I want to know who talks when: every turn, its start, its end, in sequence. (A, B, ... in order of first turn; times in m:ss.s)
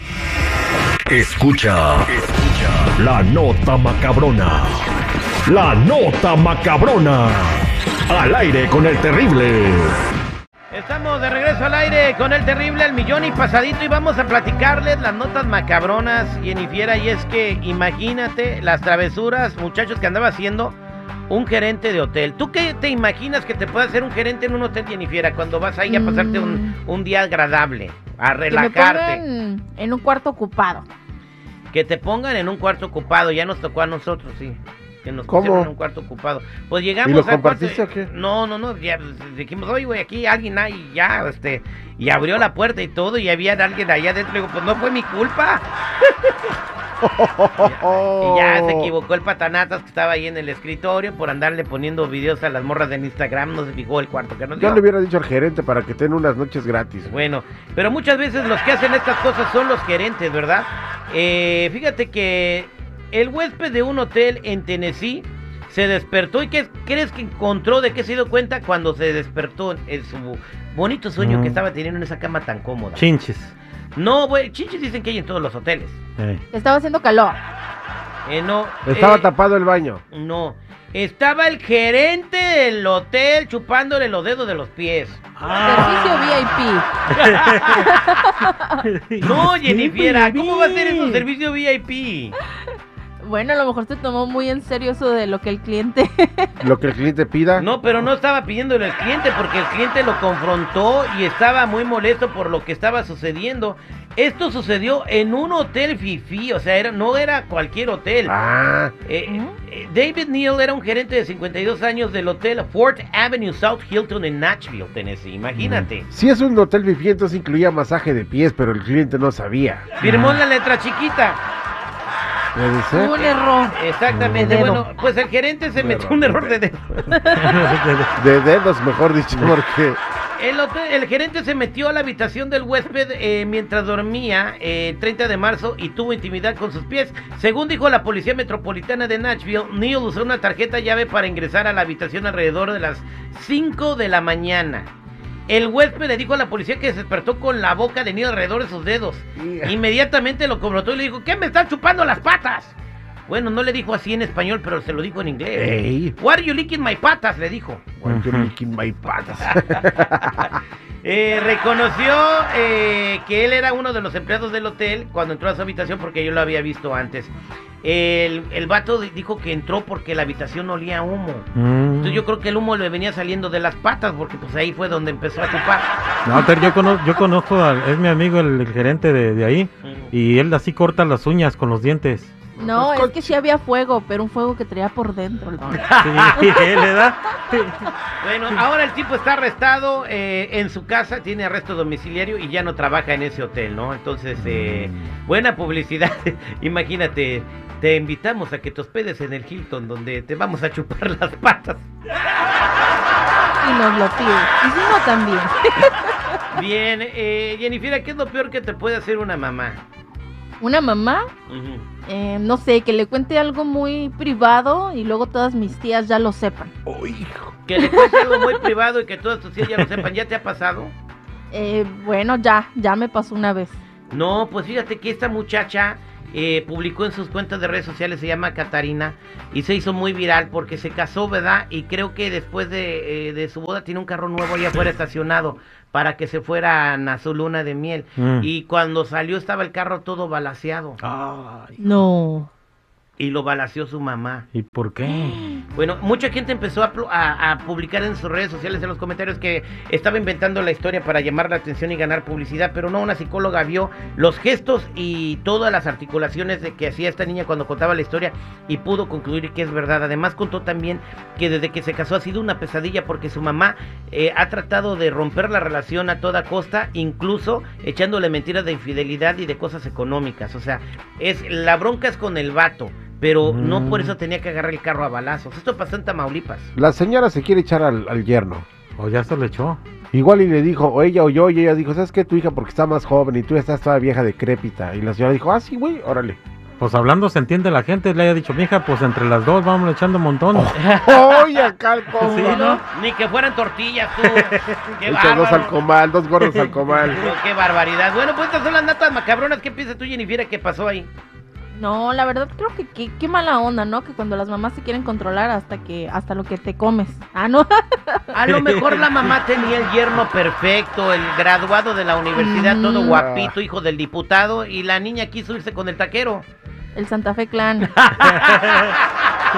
0:01.1-0:04.8 A
0:05.5-0:10.0 A
0:10.7-0:20.8 B
0:21.3-0:29.2 B
0:25.9-0:26.7 C
0:28.5-0:30.9 C
0:31.7-0:45.6 B
0:35.3-0:35.7 D
0:37.0-0:38.1 D
0:47.0-0:48.9 D
0:47.6-0:54.8 B
0:54.6-0:57.1 D
0:57.1-1:13.0 B
1:11.2-1:11.6 E
1:13.0-1:13.5 E
1:14.0-1:16.0 B
1:16.2-1:16.4 E
1:16.5-1:17.4 C
1:18.3-1:19.3 B
1:18.9-1:20.0 D
1:20.1-1:25.2 B
1:25.4-1:26.4 E
1:25.6-1:26.9 C
1:27.1-1:27.9 E
1:27.7-1:28.8 C
1:28.8-1:31.2 E
1:29.2-1:32.4 B
1:33.2-1:36.5 C
1:36.6-1:37.7 D
1:37.6-1:48.3 B
1:48.3-1:48.9 D
1:49.0-1:56.0 B
1:49.3-1:49.6 C
1:55.6-1:55.9 E
1:56.1-1:59.9 D
2:00.0-2:01.4 B
2:00.0-2:00.4 E
2:02.5-2:03.2 D
2:02.9-2:03.8 C
2:03.2-2:07.1 B
2:04.1-2:04.5 E
2:04.3-2:04.8 D
2:04.4-2:04.8 C
2:05.8-2:06.6 D
2:07.1-2:07.6 C
2:07.3-2:08.2 E
2:08.2-2:10.0 D
2:10.4-2:24.9 B
2:25.5-2:32.8 B
2:29.4-2:29.8 D
2:33.3-2:37.9 B
2:35.6-2:36.2 D
2:38.0-2:40.5 D
2:38.0-2:38.5 E
2:39.4-2:39.8 B
2:41.0-2:51.5 B
2:51.5-2:52.2 E
2:52.0-2:55.9 B
2:56.2-3:02.3 E
2:59.8-3:00.1 B
3:02.6-3:03.4 D
3:02.6-3:06.5 C
3:06.0-3:07.9 E
3:08.2-3:21.8 B
3:14.4-3:15.2 E
3:23.6-3:26.1 C
3:26.5-3:29.8 B
3:30.6-3:31.3 C
3:31.5-3:31.9 B
3:32.1-3:36.7 C
3:36.9-3:37.5 D
3:37.7-3:40.9 B
3:37.8-3:38.3 C
3:41.5-3:43.8 C
3:44.1-4:01.0 B
3:58.2-3:58.5 E
4:01.0-4:01.8 E
4:01.8-4:02.5 C
4:03.2-4:04.5 B
4:04.5-4:05.5 E
4:05.1-4:05.4 C
4:05.7-4:36.7 B
4:33.4-4:34.2 E
4:36.8-4:38.6 D
4:39.0-4:39.8 E
4:40.1-4:46.4 D
4:46.8-4:50.8 E
4:50.5-4:52.7 D
4:52.2-4:52.8 E
4:52.2-4:52.8 C
4:52.9-4:55.8 B
4:54.3-4:54.8 E
4:55.1-4:57.2 D
4:56.5-4:57.2 E
4:57.2-5:01.1 B
5:01.8-5:08.4 C
5:08.3-5:16.4 B
5:08.6-5:09.1 E
5:12.4-5:13.2 C
5:13.1-5:13.5 D
5:17.0-5:17.9 C
5:18.2-5:18.8 B
5:18.4-5:18.8 E